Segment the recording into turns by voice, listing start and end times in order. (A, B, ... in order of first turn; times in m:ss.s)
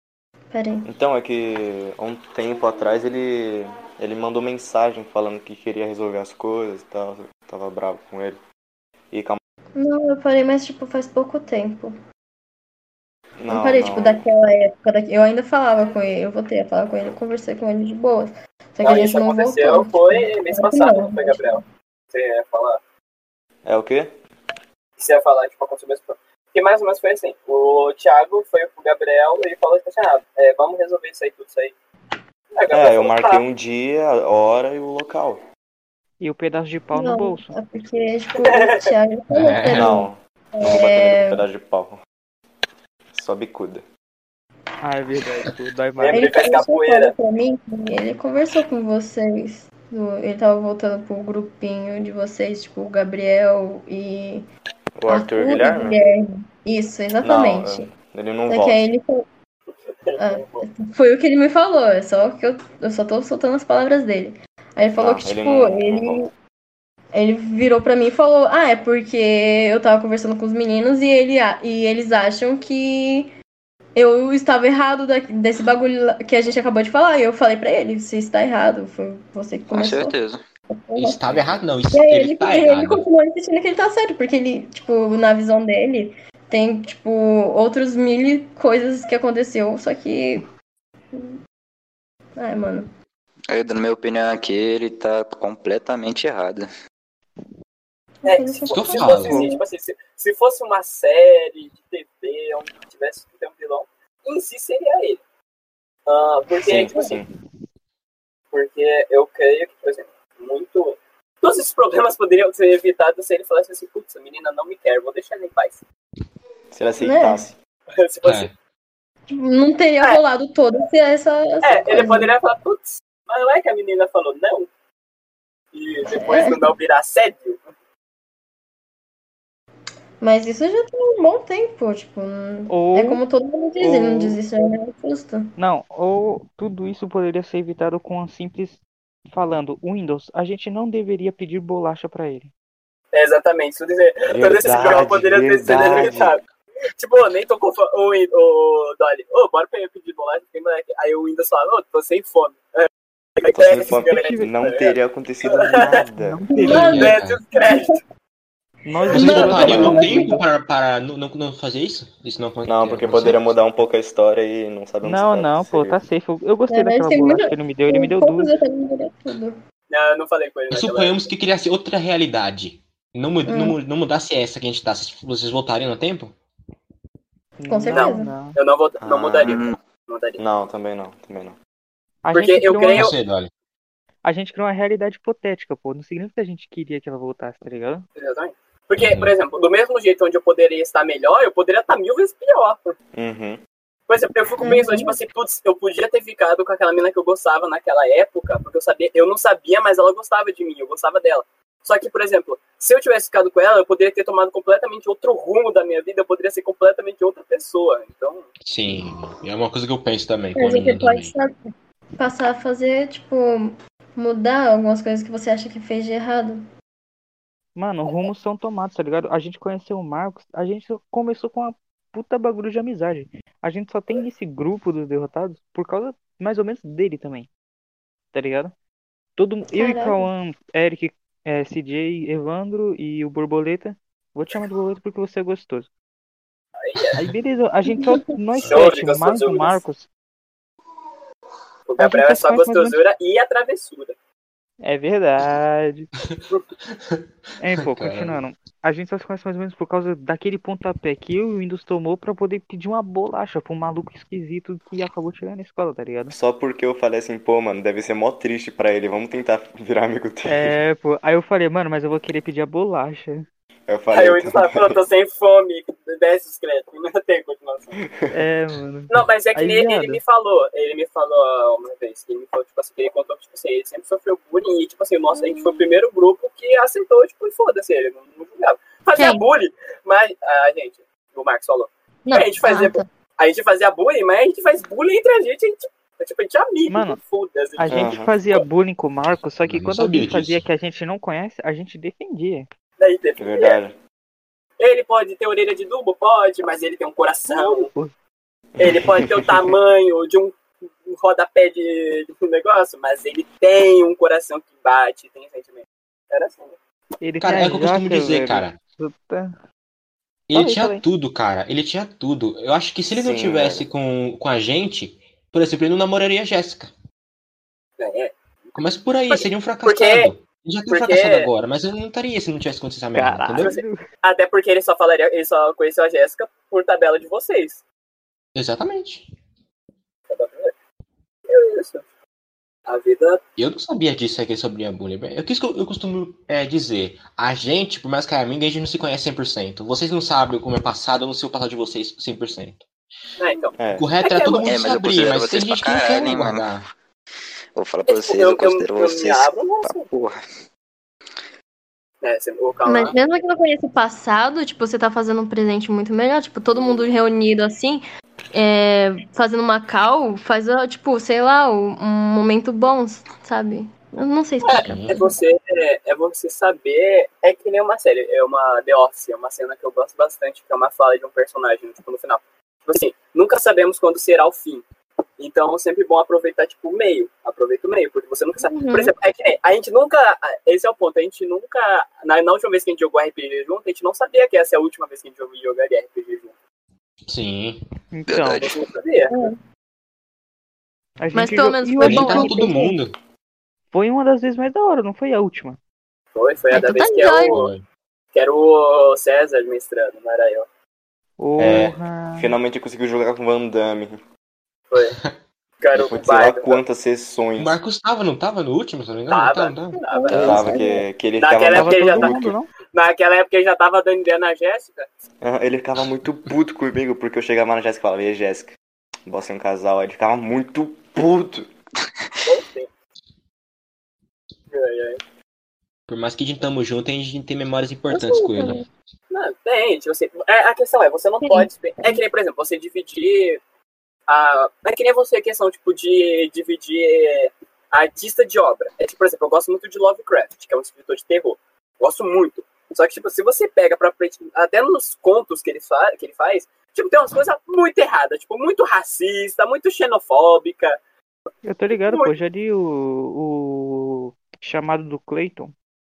0:00.5-0:00.9 A
0:00.8-0:08.4 B
0:09.1-0:09.4 B
0:09.8-0:11.9 A
0:13.4-0:14.2 B
0:13.5-0:21.6 A
0:18.8-0:21.6 C
0:22.1-0:22.8 C
0:23.6-0:24.1 B
0:25.0-0:31.8 C
0:32.6-0:33.4 C
0:32.7-0:35.4 B
0:36.2-0:37.6 D
0:36.9-0:41.4 A
0:38.4-0:38.9 C
0:39.3-0:40.0 E
0:39.7-0:42.0 B
0:43.1-0:43.8 B
0:44.8-0:46.4 D
0:46.0-0:47.1 C
0:46.1-0:54.5 A
0:55.0-0:56.0 B
0:55.1-0:57.9 A
0:57.2-0:58.8 B
0:58.5-0:59.3 A
1:00.1-1:00.7 C
1:00.2-1:06.3 A
1:05.0-1:06.2 B
1:07.1-1:13.3 A
1:14.0-1:20.2 A
1:19.7-1:20.4 F
1:20.7-1:21.4 A
1:21.0-1:23.0 E
1:21.9-1:30.5 A
1:31.1-1:31.4 A
1:32.4-1:32.9 A
1:33.5-1:36.7 F
1:38.2-1:39.6 A
1:38.2-1:45.2 C
1:38.7-1:39.4 E
1:46.1-1:47.1 C
1:46.6-1:47.3 B
1:46.9-1:47.2 A
1:48.5-1:55.8 C
1:56.7-1:57.6 B
1:57.0-1:57.5 A
1:57.9-1:58.5 C
1:58.2-1:58.5 E
1:59.3-2:02.4 A
2:01.6-2:04.7 C
2:05.7-2:07.6 C
2:06.0-2:06.8 A
2:10.2-2:15.5 A
2:12.7-2:13.2 D
2:13.8-2:14.4 D
2:15.6-2:22.5 D
2:23.1-2:26.4 C
2:24.3-2:26.4 B
2:27.0-2:36.0 C
2:33.5-2:36.4 B
2:33.8-2:34.5 D
2:36.1-2:37.0 D
2:36.5-2:38.0 A
2:36.7-2:37.4 E
2:36.7-2:38.0 C
2:38.9-2:40.4 D
2:39.0-2:40.4 A
2:39.1-2:43.5 E
2:39.3-2:40.0 B
2:42.7-2:46.0 B
2:45.0-2:48.5 D
2:46.7-2:49.6 A
2:49.9-2:51.3 C
2:50.7-2:56.4 E
2:53.5-2:53.8 A
2:57.6-2:58.6 D
2:57.7-2:58.3 A
2:57.9-3:00.4 C
2:59.0-2:59.7 B
2:59.4-2:59.8 F
3:00.4-3:01.6 B
3:02.2-3:03.1 D
3:02.3-3:03.2 C
3:03.0-3:03.5 E
3:04.2-3:08.1 D
3:08.2-3:13.0 C
3:09.0-3:09.3 E
3:13.1-3:13.6 B
3:14.1-3:28.5 C
3:14.6-3:15.2 A
3:28.6-3:31.3 E
3:30.6-3:36.6 A
3:37.8-3:47.5 D
3:48.3-3:48.7 D
3:49.4-3:55.9 D
3:49.7-3:50.3 A
3:56.8-3:57.2 C
3:57.2-4:00.1 D
3:57.9-3:58.4 A
3:58.6-3:59.8 C
4:01.9-4:04.2 C
4:02.0-4:03.0 D
4:04.8-4:06.1 D
4:06.9-4:08.4 E
4:07.6-4:16.4 D
4:16.3-4:20.8 B
4:20.5-4:23.5 D
4:23.9-4:25.0 B
4:24.1-4:28.0 C
4:28.0-4:28.4 B
4:28.3-4:30.2 D
4:29.1-4:48.6 C
4:35.3-4:35.8 A
4:39.2-4:39.4 A
4:42.3-4:43.1 A
4:46.9-4:47.2 D
4:47.8-4:52.7 D
4:47.9-4:48.3 B
4:49.6-4:50.6 E
4:53.0-4:53.8 C
4:53.4-4:54.0 B
4:54.8-4:57.9 C
4:57.5-4:58.1 D
4:58.8-4:59.5 B
4:58.8-5:06.8 C
5:07.2-5:09.6 D
5:07.4-5:08.8 E
5:10.5-5:16.9 E
5:10.5-5:11.0 D
5:13.1-5:13.9 B
5:18.0-5:18.8 C
5:18.8-5:23.7 E
5:19.3-5:20.3 C
5:20.9-5:21.5 C
5:23.1-5:24.0 D
5:23.6-5:27.8 C
5:28.6-5:29.3 E
5:30.3-5:30.7 C
5:31.5-5:32.1 C
5:32.9-5:33.4 C
5:33.6-5:42.8 E
5:43.4-5:44.7 C
5:43.8-5:44.1 B
5:44.0-5:46.9 E
5:44.7-5:46.7 F
5:47.8-5:50.4 F
5:48.1-5:50.1 C
5:52.2-5:53.2 C
5:52.8-6:05.3 A
6:04.6-6:14.8 C
6:04.8-6:05.2 E
6:15.4-6:26.5 C
6:18.6-6:19.1 A
6:27.3-6:27.8 E
6:28.1-6:28.7 D
6:28.3-6:28.8 F
6:28.6-6:29.3 C
6:29.3-6:29.6 A
6:31.2-6:32.7 D
6:31.3-6:33.0 A
6:32.0-6:33.2 E
6:33.9-6:35.8 D
6:36.4-6:37.7 C
6:36.7-6:37.7 A
6:37.5-6:37.8 E
6:38.3-6:40.7 C
6:41.4-6:42.5 D
6:41.6-6:44.2 B
6:41.6-6:41.9 E
6:44.9-6:45.2 C
6:45.8-6:46.8 C
6:45.9-6:47.8 B
6:47.6-6:50.0 E
6:49.3-6:50.7 C
6:50.0-6:51.1 A
6:50.3-6:52.6 B
6:51.4-6:55.1 C
6:51.7-6:52.7 D
6:55.4-6:58.8 B
6:59.3-7:01.7 B
7:02.4-7:02.9 C
7:04.7-7:05.2 C
7:06.1-7:08.8 E
7:08.1-7:08.9 A
7:09.3-7:13.6 C
7:11.4-7:12.2 A
7:14.3-7:31.0 C
7:31.6-7:35.7 D
7:32.0-7:32.3 C